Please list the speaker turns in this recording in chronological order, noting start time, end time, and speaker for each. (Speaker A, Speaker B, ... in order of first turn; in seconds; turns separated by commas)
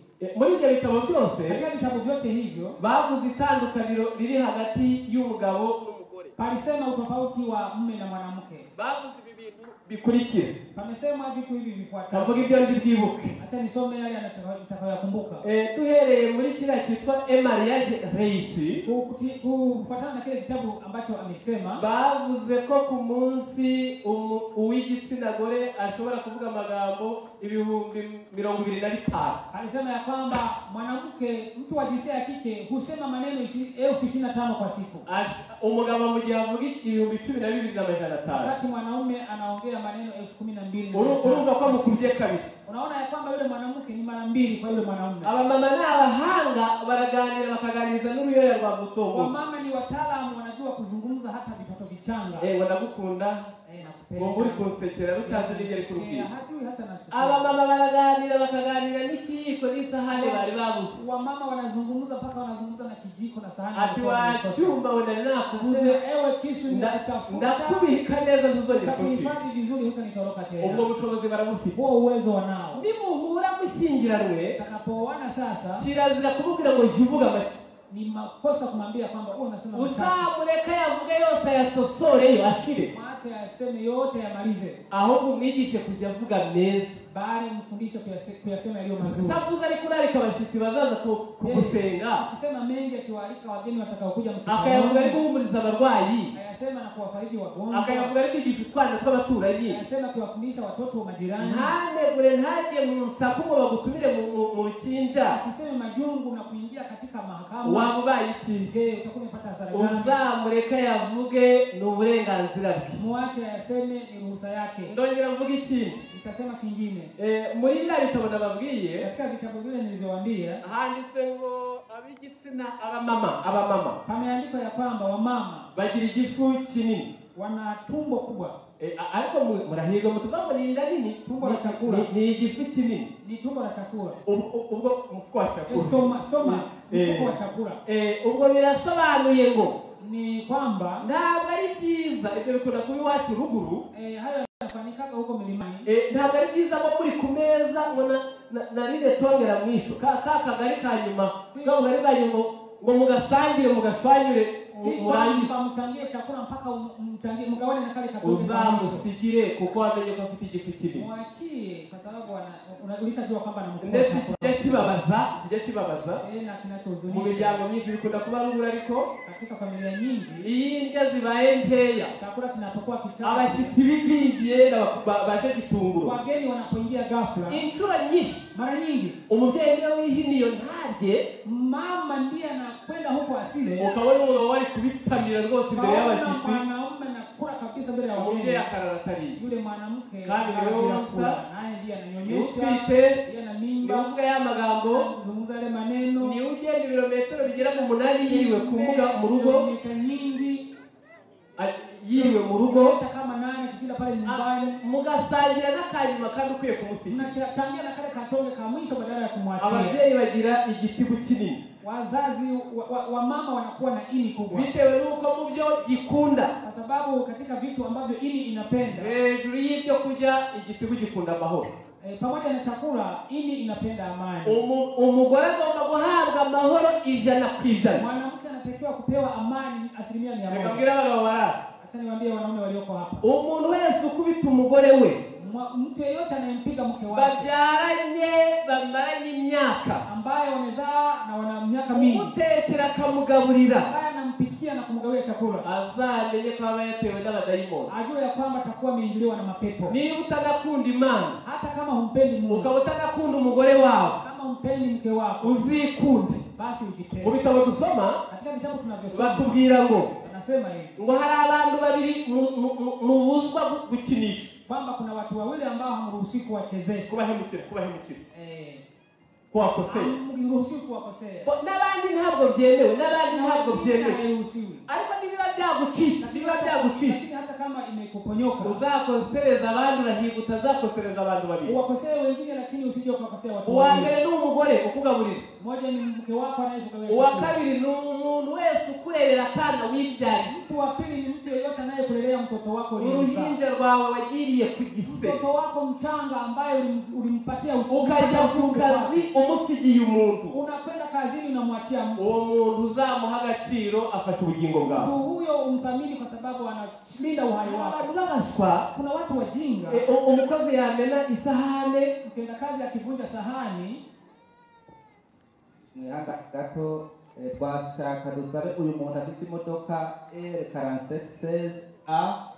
Speaker A: 0.2-1.6, Speaker B: 1.5-2.8, Speaker A: 2.8-6.3, Speaker B: 6.4-8.7, Speaker A: 8.7-10.5, Speaker B: 10.7-12.5, Speaker A: 12.1-13.3, Speaker B: 13.4-15.4, Speaker A: 15.4-18.8, Speaker B: 18.8-21.8, Speaker A: 21.8-29.4, Speaker B: 29.5-35.0, Speaker A: 35.0-38.5, Speaker B: 38.3-42.1, Speaker A: 40.9-42.5, Speaker B: 42.6-45.3, Speaker A: 45.2-49.3, Speaker B: 49.1-52.5, Speaker A: 52.4-53.5, Speaker B: 53.6-54.7, Speaker A: 54.2-56.3, Speaker B: 55.2-57.5, Speaker A: 57.1-61.0, Speaker B: 60.1-64.8, Speaker A: 63.7-66.0, Speaker B: 65.5-68.0, Speaker A: 66.7-69.3, Speaker B: 68.7-70.8, Speaker A: 70.6-71.8, Speaker B: 71.7-72.8, Speaker A: 72.7-74.6, Speaker B: 74.5-75.8, Speaker A: 75.7-77.6, Speaker B: 77.9-80.3, Speaker A: 79.7-82.9, Speaker B: 82.9-84.8, Speaker A: 84.9-87.0, Speaker B: 87.1-89.4, Speaker A: 89.0-92.2, Speaker B: 91.4-95.2, Speaker A: 94.5-96.3, Speaker B: 96.3-98.1, Speaker A: 97.7-99.8, Speaker B: 99.7-101.7, Speaker A: 101.4-105.4, Speaker B: 105.2-107.9, Speaker A: 107.6-108.7, Speaker B: 108.7-110.1, Speaker A: 109.7-113.0, Speaker B: 113.0-114.9, Speaker A: 114.8-116.0, Speaker B: 116.1-117.1, Speaker A: 117.2-119.1, Speaker B: 119.0-120.6, Speaker A: 120.6-124.0, Speaker B: 124.0-125.7, Speaker A: 125.7-127.1, Speaker B: 127.3-128.6, Speaker A: 128.8-133.1, Speaker B: 131.2-132.1, Speaker B: 133.2-134.2, Speaker A: 134.2-139.8, Speaker B: 135.7-137.8, Speaker B: 140.0-141.0, Speaker A: 141.0-143.8, Speaker B: 143.9-145.9, Speaker A: 145.8-155.5, Speaker B: 151.4-151.8, Speaker B: 154.7-159.0, Speaker A: 158.2-161.1, Speaker B: 160.9-164.9, Speaker A: 163.8-166.2, Speaker B: 166.2-167.6, Speaker A: 167.1-169.1, Speaker B: 169.2-170.4, Speaker A: 170.4-172.2, Speaker B: 172.2-173.7, Speaker A: 173.2-176.2, Speaker B: 176.0-177.6, Speaker A: 177.5-178.4, Speaker B: 178.5-179.2, Speaker A: 179.3-181.2, Speaker B: 181.4-183.9, Speaker A: 183.8-186.6, Speaker B: 185.7-188.6, Speaker A: 188.2-189.4, Speaker B: 189.4-194.1, Speaker A: 190.2-191.4, Speaker A: 192.2-193.2, Speaker A: 193.8-195.1, Speaker B: 194.9-196.4, Speaker A: 196.2-199.7, Speaker B: 197.4-200.7, Speaker A: 201.6-203.0, Speaker B: 202.1-204.8, Speaker A: 204.2-207.3, Speaker B: 207.1-210.0, Speaker A: 209.6-211.6, Speaker B: 211.8-214.7, Speaker A: 214.5-216.5, Speaker B: 216.6-219.1, Speaker A: 218.9-221.7, Speaker B: 222.0-224.6, Speaker A: 224.4-228.0, Speaker B: 227.9-230.8, Speaker A: 230.5-231.6, Speaker B: 231.8-233.2, Speaker A: 233.2-235.2, Speaker B: 235.3-237.5, Speaker A: 237.1-240.0, Speaker B: 240.1-242.3, Speaker A: 241.9-243.9, Speaker B: 243.8-245.7, Speaker A: 245.6-247.9, Speaker B: 247.9-250.0, Speaker A: 249.8-251.4, Speaker B: 251.4-252.7, Speaker A: 252.5-254.2, Speaker B: 254.2-255.7, Speaker A: 255.4-256.4, Speaker B: 256.5-257.4, Speaker A: 257.2-258.2, Speaker B: 258.3-260.9, Speaker A: 259.1-260.1, Speaker A: 260.9-264.5, Speaker B: 264.7-267.1, Speaker A: 267.1-268.2, Speaker B: 268.3-268.8, Speaker A: 269.5-270.1, Speaker B: 269.9-271.5, Speaker A: 271.4-274.2, Speaker B: 273.3-274.8, Speaker A: 274.9-277.2, Speaker B: 276.2-278.8, Speaker A: 278.6-281.8, Speaker B: 281.6-284.1, Speaker A: 283.6-285.4, Speaker B: 285.6-287.6, Speaker A: 287.1-290.5, Speaker B: 290.4-293.5, Speaker A: 293.0-295.4, Speaker B: 295.0-299.3, Speaker A: 297.9-300.5, Speaker B: 300.5-302.2, Speaker A: 302.2-305.1, Speaker B: 304.9-308.0, Speaker A: 307.6-308.9, Speaker B: 308.9-310.0, Speaker A: 309.9-312.1, Speaker B: 312.2-314.0, Speaker C: 315.9-322.4